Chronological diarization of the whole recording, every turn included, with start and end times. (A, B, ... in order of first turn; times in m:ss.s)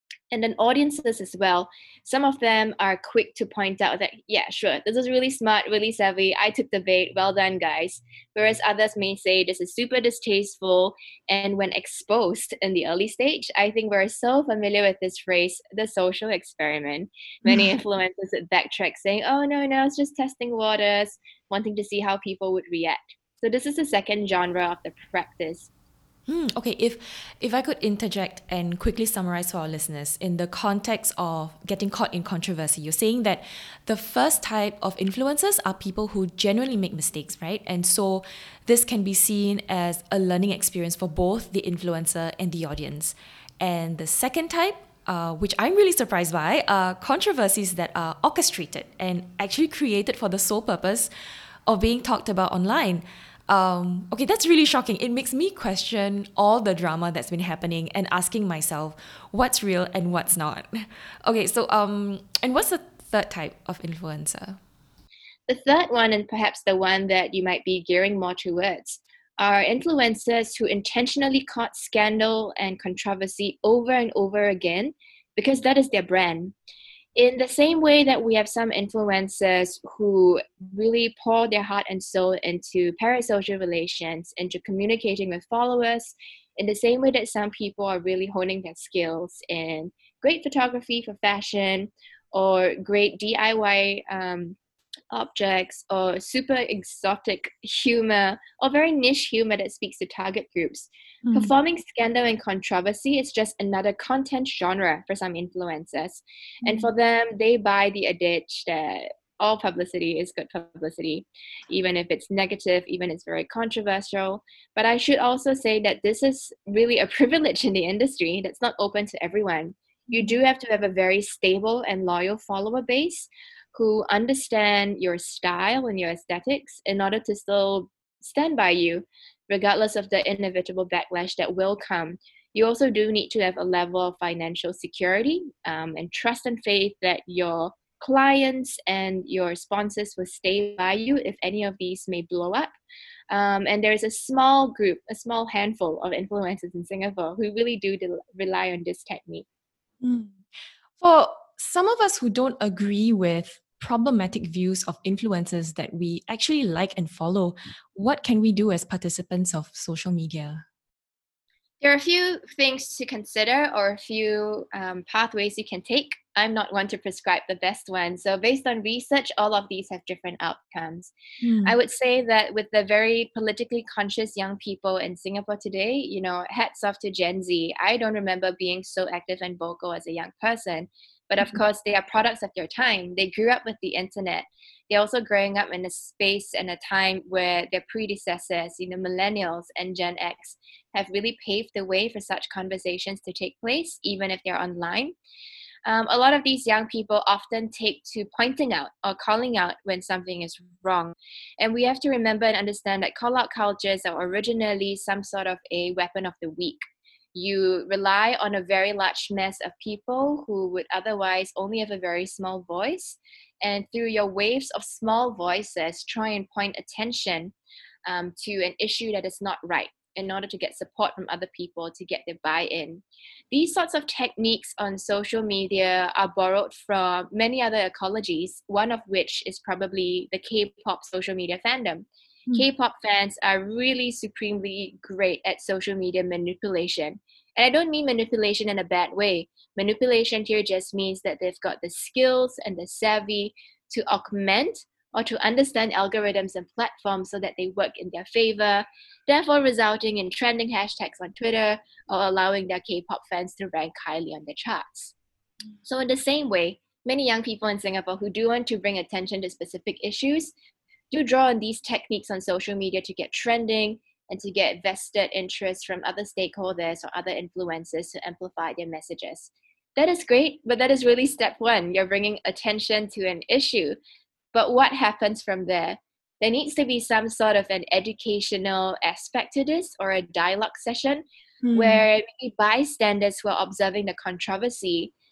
0:00.3-0:25.7 A
0:17.4-0:17.8 B
0:26.3-0:51.1 B
0:51.6-1:04.6 B
1:05.5-1:16.5 A
1:17.2-1:34.6 A
1:35.1-2:22.7 A
1:41.2-1:41.5 B
1:46.6-1:46.9 B
2:00.1-2:00.4 B
2:23.3-2:29.4 A
2:30.0-2:30.4 B
2:31.0-2:40.6 B
2:41.8-2:51.1 A
2:51.4-2:51.8 B
2:51.6-3:15.1 A
3:15.8-3:26.8 A
3:27.3-3:37.5 A
3:38.0-4:15.1 A
4:15.8-4:20.5 A
4:21.1-4:34.0 A
4:34.5-4:41.2 A
4:41.6-4:42.0 B
4:41.7-4:45.1 A